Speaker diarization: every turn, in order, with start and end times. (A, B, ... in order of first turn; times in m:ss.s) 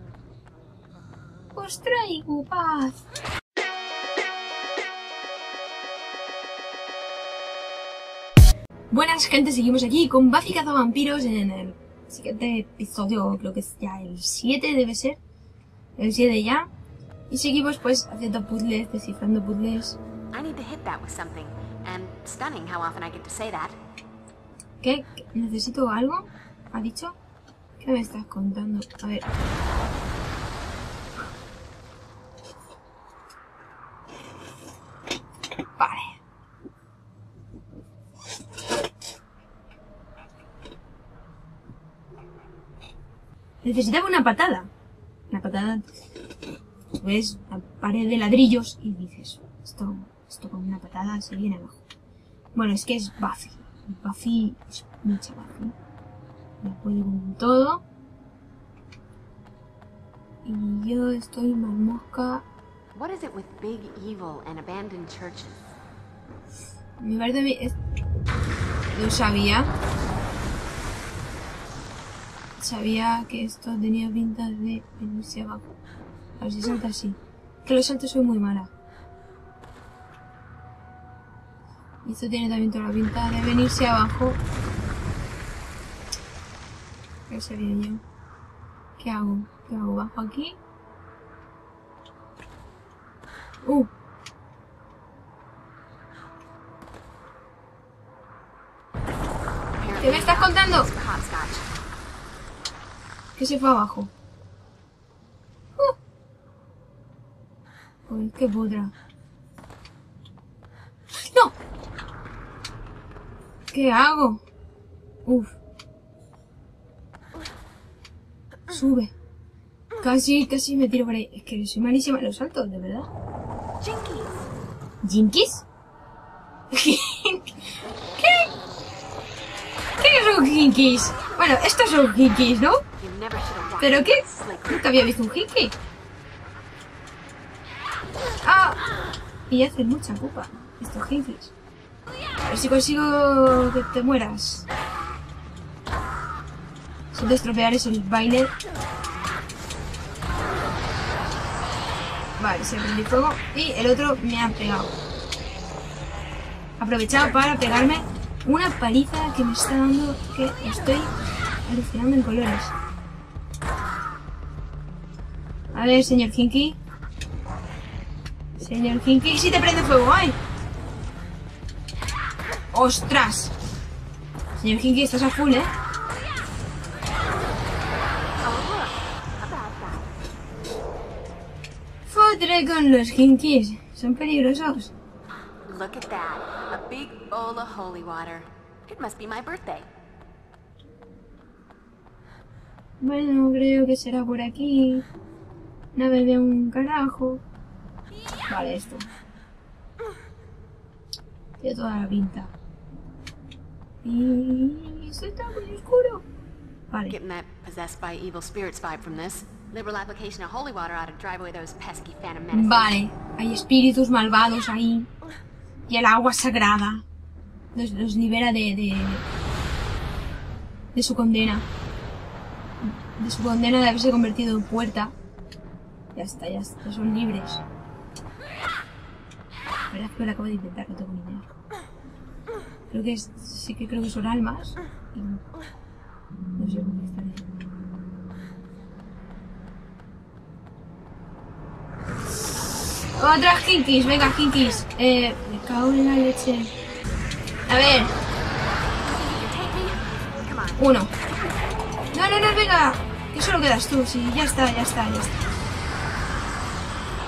0:01.5-0:03.0 A
0:08.9-0:15.2 A
0:16.0-0:16.7 A
0:17.3-0:20.0 A
0:20.3-0:23.8 B
0:24.8-0:27.1 A
0:27.8-0:29.3 A
0:35.8-0:36.2 A
0:43.6-0:44.7 A
0:45.3-0:46.0 A
0:46.9-0:51.8 A
0:52.5-0:55.8 A
0:56.6-0:57.8 A
1:00.4-1:02.4 A
1:02.9-1:05.7 B
1:07.0-1:07.8 A
1:08.9-1:09.7 A
1:12.6-1:15.7 A
1:16.4-1:18.7 A
1:22.0-1:24.4 A
1:27.3-1:28.0 A
1:29.0-1:30.6 A
1:33.6-1:33.9 A
1:39.8-1:41.7 B
1:40.0-1:40.9 A
1:43.4-1:44.1 A
1:48.1-1:48.9 A
1:51.2-1:51.5 A
1:53.7-1:54.4 A
1:55.2-1:55.6 A
1:58.7-1:59.1 A
2:00.0-2:03.1 A
2:03.8-2:04.3 B
2:05.0-2:05.6 A
2:06.7-2:07.6 A
2:08.2-2:08.5 A
2:10.0-2:12.8 A
2:13.0-2:14.8 B
2:13.8-2:15.7 A
2:18.4-2:18.8 A
2:19.5-2:21.5 A
2:22.4-2:24.7 A
2:27.1-2:28.5 A
2:32.4-2:34.9 A
2:36.8-2:41.1 A
2:41.6-2:42.7 A
2:45.7-2:46.8 A
2:48.6-2:50.4 A
2:52.7-2:53.5 A
2:54.6-2:55.7 A
2:58.4-3:00.1 B
3:02.0-3:04.9 A
3:05.6-3:09.9 B
3:13.0-3:15.0 A
3:15.9-3:17.4 A
3:18.5-3:19.1 A
3:21.6-3:22.5 A
3:24.0-3:26.2 A
3:26.9-3:27.2 A
3:27.1-3:33.0 B
3:32.5-3:35.1 A
3:35.9-3:37.0 A
3:37.7-3:39.2 A
3:40.9-3:41.6 A
3:42.8-3:45.1 A
3:46.1-3:47.6 A
3:49.9-3:51.5 A
3:52.9-3:55.4 A
3:56.6-3:57.5 A
4:03.2-4:06.7 A
4:07.7-4:08.1 A
4:09.0-4:10.9 B
4:10.8-4:11.1 A
4:12.1-4:15.5 A